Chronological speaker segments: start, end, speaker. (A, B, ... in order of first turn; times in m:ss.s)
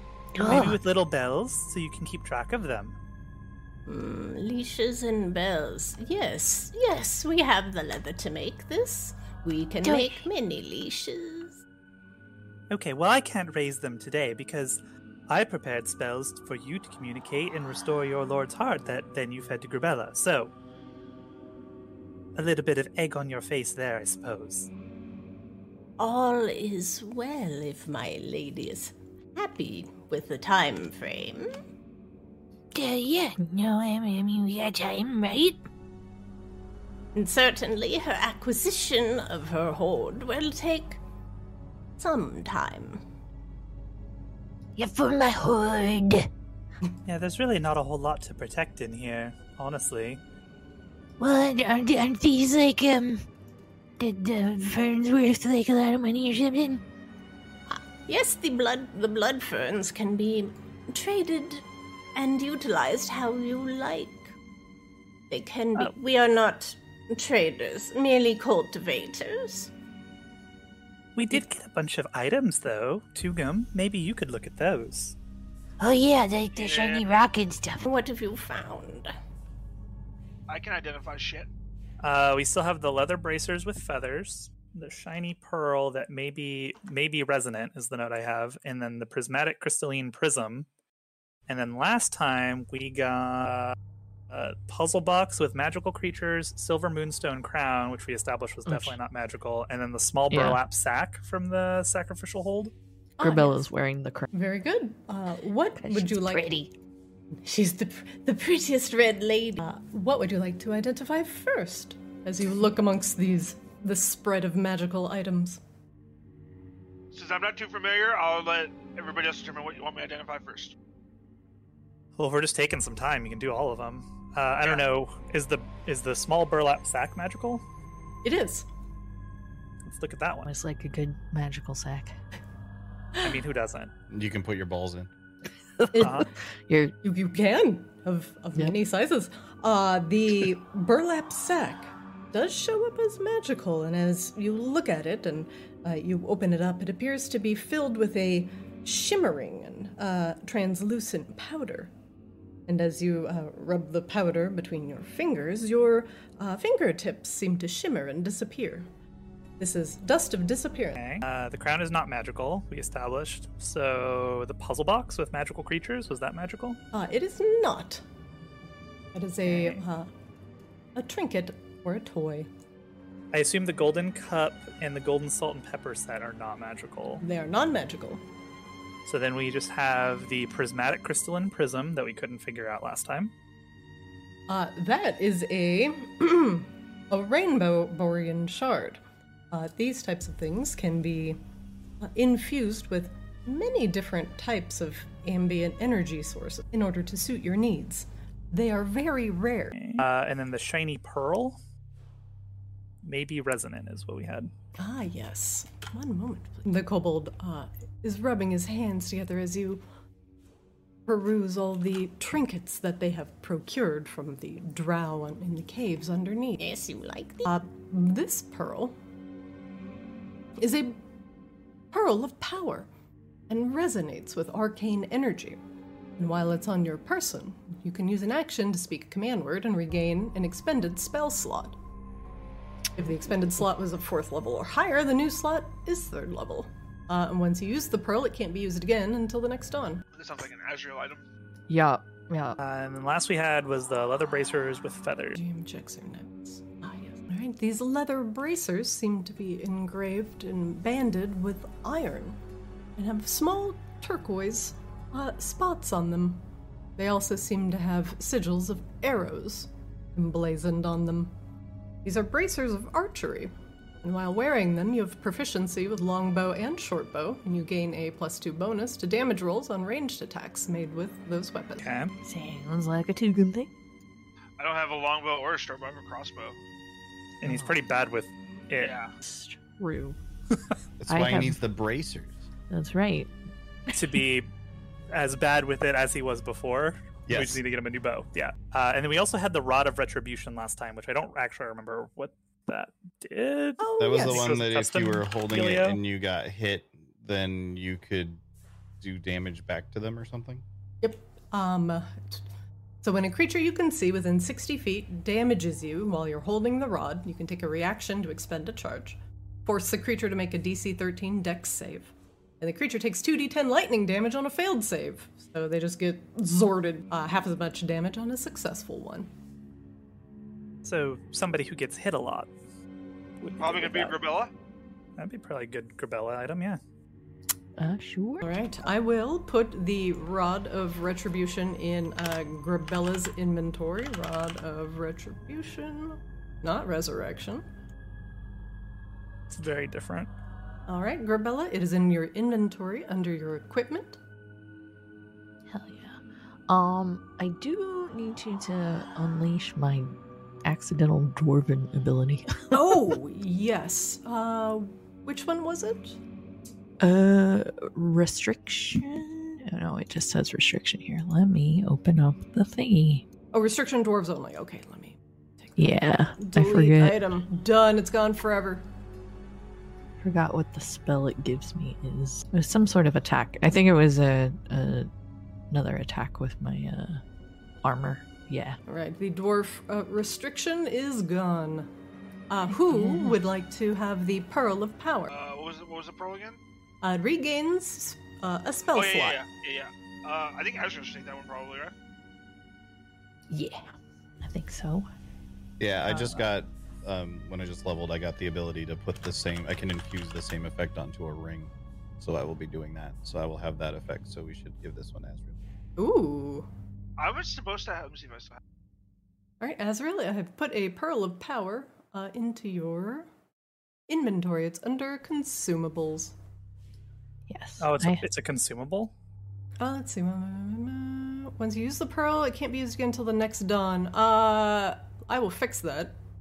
0:00.3-0:00.8 A
0:00.4-0:03.0 B
0:03.9-0:11.6 C
0:09.8-0:10.2 A
0:12.7-0:20.5 B
0:22.3-0:24.7 B
0:26.0-0:31.5 C
0:32.7-0:35.6 A
0:37.1-0:41.0 C
0:42.0-0:43.0 C
0:44.8-0:46.3 A
0:47.0-0:50.2 B
0:51.2-0:53.2 A
0:54.0-0:56.8 A
0:57.7-1:04.3 C
1:05.3-1:09.7 C
1:11.2-1:15.2 B
1:15.8-1:17.8 A
1:16.5-1:17.0 D
1:17.8-1:19.1 C
1:20.5-1:21.5 D
1:22.0-1:30.7 B
1:31.5-1:33.8 B
1:34.3-1:42.7 B
1:38.7-1:39.0 E
1:40.3-1:40.6 E
1:43.2-1:43.6 F
1:43.2-1:44.3 E
1:44.3-1:46.5 F
1:46.1-1:46.7 A
1:47.4-1:49.6 C
1:49.6-1:55.6 F
1:57.1-2:00.7 D
2:02.2-2:07.6 B
2:08.2-2:08.7 F
2:09.8-2:10.5 B
2:10.4-2:12.2 E
2:13.2-2:13.9 B
2:14.1-2:15.1 G
2:15.8-2:16.9 E
2:15.9-2:16.2 F
2:16.0-2:16.3 B
2:17.0-2:31.9 F
2:32.7-2:38.9 F
2:39.6-2:41.1 F
2:41.0-2:46.8 B
2:46.9-2:48.0 F
2:49.1-2:50.1 F
2:49.4-2:49.8 B
2:50.9-2:52.5 F
2:53.3-2:57.2 B
2:57.2-2:58.2 F
2:59.0-3:03.3 B
3:04.5-3:09.0 F
3:09.5-3:11.4 F
3:12.0-3:19.9 F
3:19.8-3:21.6 B
3:23.0-3:24.5 B
3:24.8-3:29.8 F
3:31.1-3:36.6 F
3:36.6-3:37.5 C
3:37.4-3:39.0 F
3:40.6-3:41.0 F
3:41.9-3:42.9 F
3:43.5-3:45.6 F
3:46.2-3:51.8 F
3:53.0-4:00.0 F
4:00.1-4:01.2 D
4:01.7-4:02.6 E
4:02.6-4:05.4 B
4:05.3-4:12.4 F
4:13.0-4:16.4 F
4:17.0-4:21.3 F
4:22.0-4:23.5 F
4:24.0-4:31.8 F
4:31.8-4:32.1 B
4:32.2-4:33.7 E
4:34.6-4:36.6 D
4:37.4-4:38.9 B
4:37.4-4:37.8 E
4:38.8-4:39.1 D
4:39.2-4:40.2 E
4:41.0-4:42.5 G
4:41.1-4:41.6 E
4:42.7-4:43.3 E
4:43.9-4:44.5 B
4:45.1-4:56.0 B
4:47.3-4:47.6 G
4:53.8-4:54.5 F
4:54.0-4:58.4 G
4:59.0-5:00.6 G
5:01.0-5:02.4 F
5:03.0-5:19.3 F
5:20.8-5:22.5 B
5:23.4-5:24.2 B
5:23.6-5:24.5 D
5:25.2-5:26.8 B
5:27.8-5:28.5 E
5:28.4-5:37.6 F
5:39.5-5:40.3 B
5:40.9-5:44.2 F
5:45.7-5:52.9 E
5:52.7-5:56.2 F
5:57.0-6:03.2 E
6:03.5-6:05.8 F
6:05.8-6:07.2 E
6:06.4-6:08.8 F
6:10.2-6:15.1 E
6:15.7-6:17.2 E
6:17.8-6:18.8 E
6:18.9-6:21.9 F
6:22.5-6:25.3 F
6:22.9-6:23.4 E
6:25.3-6:26.6 D
6:27.0-6:29.4 F
6:28.9-6:31.9 D
6:33.5-6:35.1 E
6:35.8-6:45.6 G
6:36.1-6:36.3 F
6:46.0-6:46.7 F
6:47.2-6:48.6 D
6:49.6-6:53.3 F
6:54.1-6:56.3 F
6:57.5-6:58.3 E
6:57.8-6:59.1 B
6:59.8-7:06.1 F